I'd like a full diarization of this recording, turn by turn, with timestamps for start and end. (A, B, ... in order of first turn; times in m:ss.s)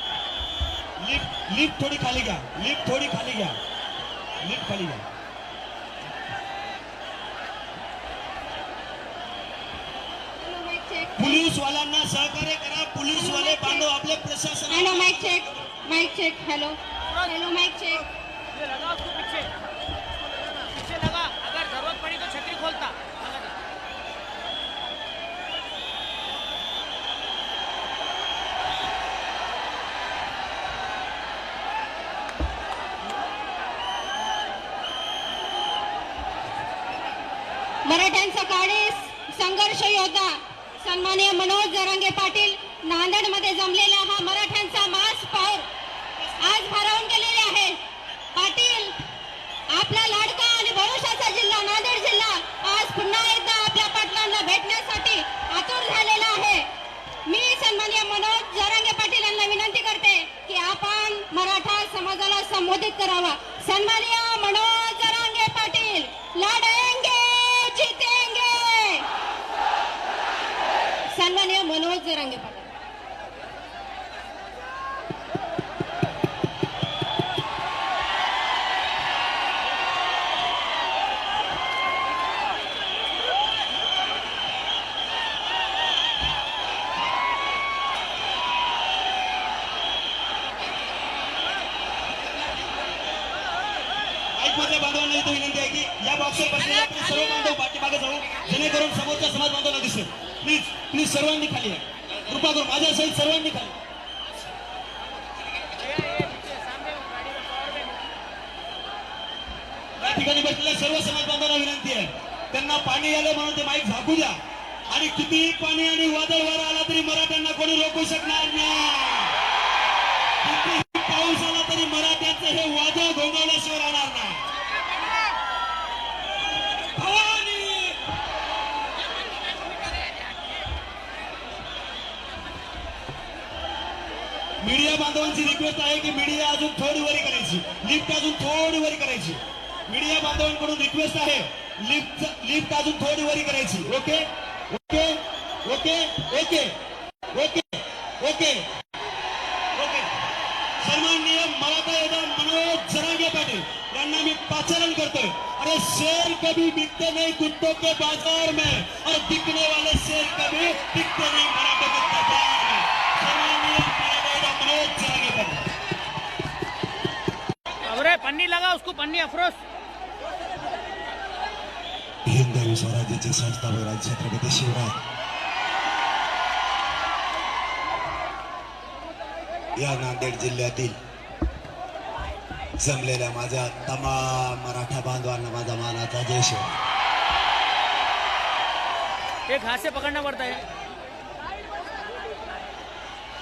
0:01.0-0:03.6 A
0:04.4-0:05.1 A
0:10.4-0:11.4 B
0:11.2-0:15.6 A
0:13.1-0:13.9 B
0:14.7-0:18.1 B
0:18.5-0:19.5 C
0:20.7-0:23.6 C
0:37.8-0:45.7 B
0:46.4-0:47.8 B
0:48.4-0:49.0 B
0:49.7-0:56.7 B
0:57.3-1:09.1 B
1:11.2-1:12.7 B
1:34.4-1:43.8 A
1:45.7-1:48.1 C
1:50.0-1:59.4 A
2:00.4-2:04.4 A
2:07.0-2:08.0 A
2:14.6-2:26.8 A
2:27.3-2:28.7 A
2:29.7-2:30.1 A
2:30.8-2:45.7 A
2:47.8-2:49.6 C
2:52.3-2:55.0 D
2:59.8-3:01.0 D
3:02.8-3:06.8 D
3:09.5-3:10.7 C